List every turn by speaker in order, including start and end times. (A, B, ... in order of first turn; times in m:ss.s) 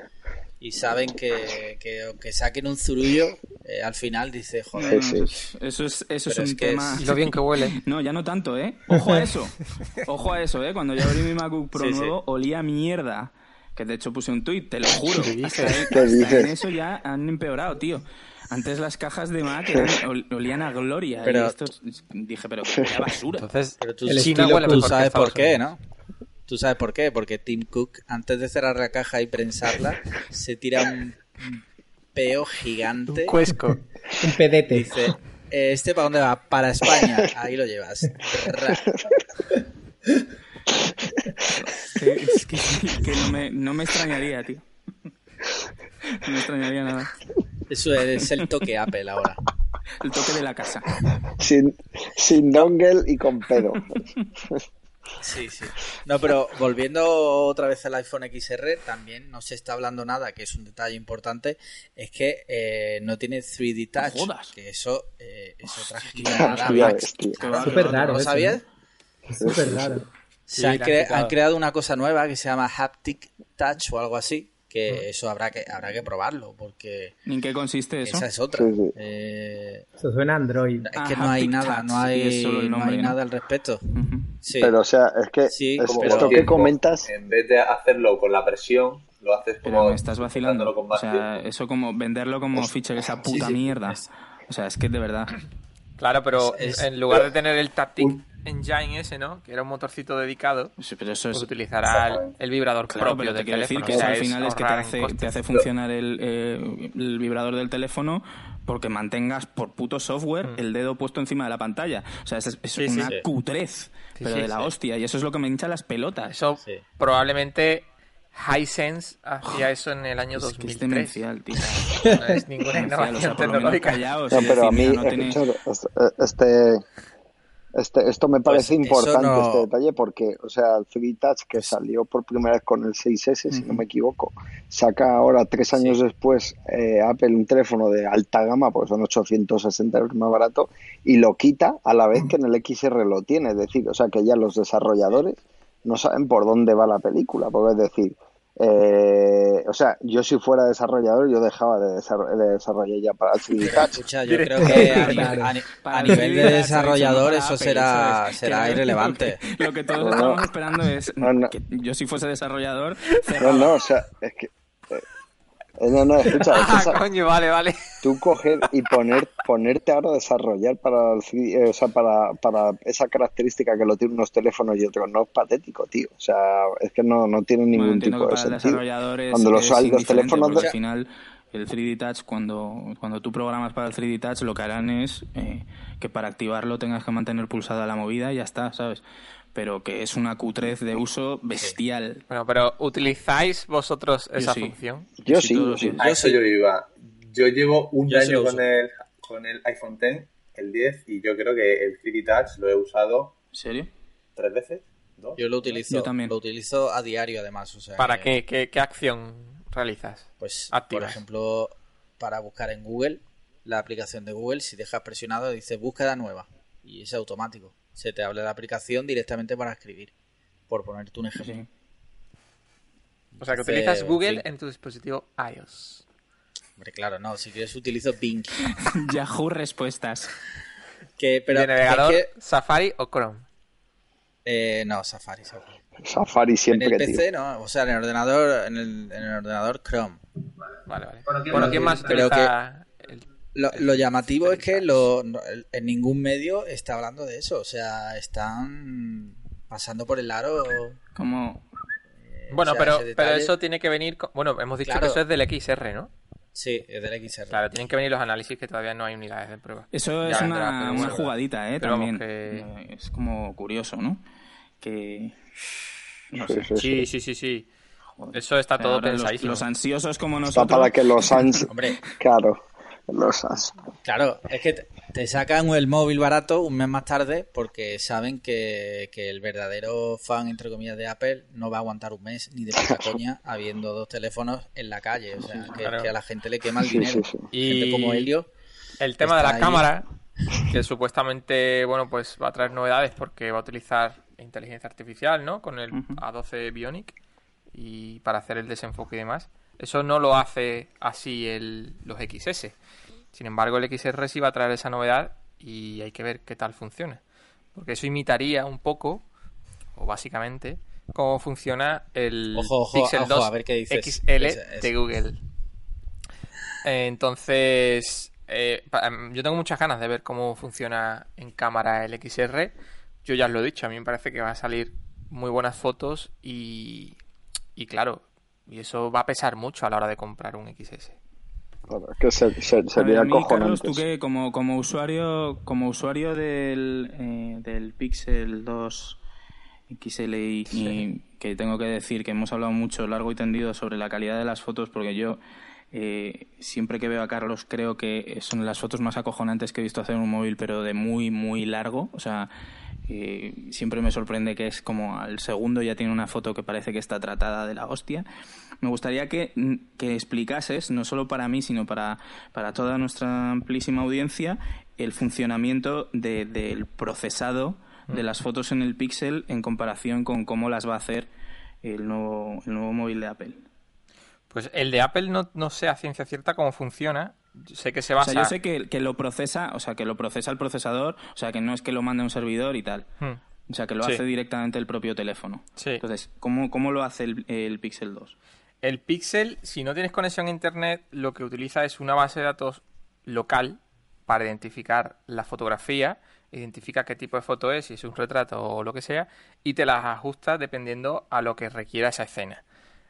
0:00.6-0:05.0 A
0:04.8-0:23.5 B
0:04.8-0:05.3 C
0:06.3-0:07.1 A
0:07.0-0:07.8 D
0:11.7-0:12.1 A
0:15.2-0:16.0 D
0:15.9-0:16.5 C
0:21.2-0:21.6 A
0:23.4-0:25.6 D
0:23.8-0:25.8 A
0:24.0-0:24.9 E
0:26.5-0:31.6 A
0:32.1-0:33.4 A
0:33.1-0:33.8 D
0:34.2-0:34.9 E
0:34.7-0:38.9 A
0:38.6-0:39.1 C
0:41.6-0:44.6 B
0:46.0-0:47.1 B
0:47.7-0:49.4 A
0:50.0-0:51.0 B
0:51.3-0:54.6 C
0:55.2-1:08.6 A
1:04.0-1:04.6 B
1:05.6-1:08.4 B
1:06.3-1:07.4 C
1:07.6-1:08.6 E
1:09.3-1:10.0 E
1:09.4-1:10.0 C
1:10.5-1:17.1 A
1:10.5-1:11.3 D
1:17.3-1:18.2 B
1:18.0-1:19.9 A
1:18.5-1:18.9 C
1:20.0-1:20.8 E
1:20.8-1:23.9 A
1:20.9-1:23.2 B
1:23.9-1:24.3 B
1:24.4-1:24.7 A
1:24.6-1:27.1 C
1:25.5-1:26.6 A
1:25.8-1:31.4 F
1:29.6-1:35.4 B
1:33.3-1:34.0 A
1:36.0-1:40.7 D
1:36.5-1:36.8 A
1:38.0-1:38.2 F
1:40.8-1:41.5 B
1:41.3-1:45.4 D
1:41.9-1:42.4 F
1:42.9-1:56.3 B
1:52.8-1:53.1 D
1:54.1-1:54.7 D
1:56.2-2:01.2 D
2:00.4-2:05.4 B
2:01.9-2:04.0 D
2:04.3-2:06.8 C
2:07.7-2:34.0 C
2:08.5-2:09.7 A
2:13.5-2:13.8 B
2:33.6-2:39.4 A
2:34.2-2:35.3 D
2:34.6-2:35.5 E
2:34.8-2:35.3 B
2:35.8-2:43.7 B
2:39.9-2:40.4 C
2:41.2-2:41.5 C
2:43.4-2:45.0 C
2:45.8-2:47.0 C
2:46.4-2:48.0 D
2:48.0-3:00.6 C
2:57.7-3:09.0 B
3:09.5-3:12.2 B
3:12.3-3:15.1 D
3:14.4-3:14.7 B
3:15.2-3:16.0 C
3:15.2-3:16.0 B
3:16.0-3:16.4 A
3:16.0-3:23.3 F
3:18.1-3:18.5 A
3:23.5-3:23.9 B
3:24.4-3:25.4 F
3:25.4-3:28.4 A
3:25.9-3:26.3 B
3:28.0-3:31.2 D
3:30.4-3:40.1 A
3:40.7-3:41.6 A
3:41.4-3:41.7 B
3:43.4-3:44.4 A
3:43.4-3:46.0 D
3:46.8-3:48.8 A
3:48.8-3:50.3 B
3:51.2-3:52.3 A
3:51.5-3:53.4 D
3:54.4-3:55.7 A
3:56.0-3:57.2 C
3:56.7-4:00.2 A
4:00.9-4:05.1 D
4:01.3-4:02.5 A
4:03.5-4:11.0 A
4:11.1-4:11.6 B
4:12.2-4:13.5 A
4:12.5-4:16.1 D
4:14.8-4:15.2 A
4:16.5-4:17.6 A
4:17.5-4:22.7 D
4:19.9-4:24.2 B
4:20.3-4:21.0 A
4:24.8-4:25.8 B
4:26.3-4:26.7 B
4:26.4-4:27.1 C
4:26.8-4:27.7 D
4:28.2-4:31.7 B
4:28.3-4:29.6 D
4:30.5-4:33.7 C
4:31.7-4:32.0 A
4:34.0-4:48.5 A
4:42.8-4:43.2 C
4:45.4-4:45.8 B
4:45.8-4:46.1 D
4:46.8-4:47.5 C
4:47.5-4:48.3 D
4:49.0-4:50.1 D
4:49.2-4:49.9 A
4:50.6-4:57.2 D
4:55.9-4:56.2 B
4:57.7-5:02.8 D
5:03.3-5:07.2 D
5:07.7-5:09.2 D
5:09.9-5:15.4 D
5:12.5-5:14.9 A
5:16.8-5:27.2 D
5:27.8-5:31.2 D
5:31.9-5:34.0 C
5:33.0-5:39.2 B
5:39.9-5:45.4 B
5:45.9-5:52.5 B
5:53.1-5:58.2 B
5:58.8-6:11.3 B
6:11.8-6:13.6 B
6:14.5-6:18.5 D
6:18.2-6:23.1 B
6:23.7-6:28.4 B
6:25.8-6:26.0 D
6:28.8-6:42.6 D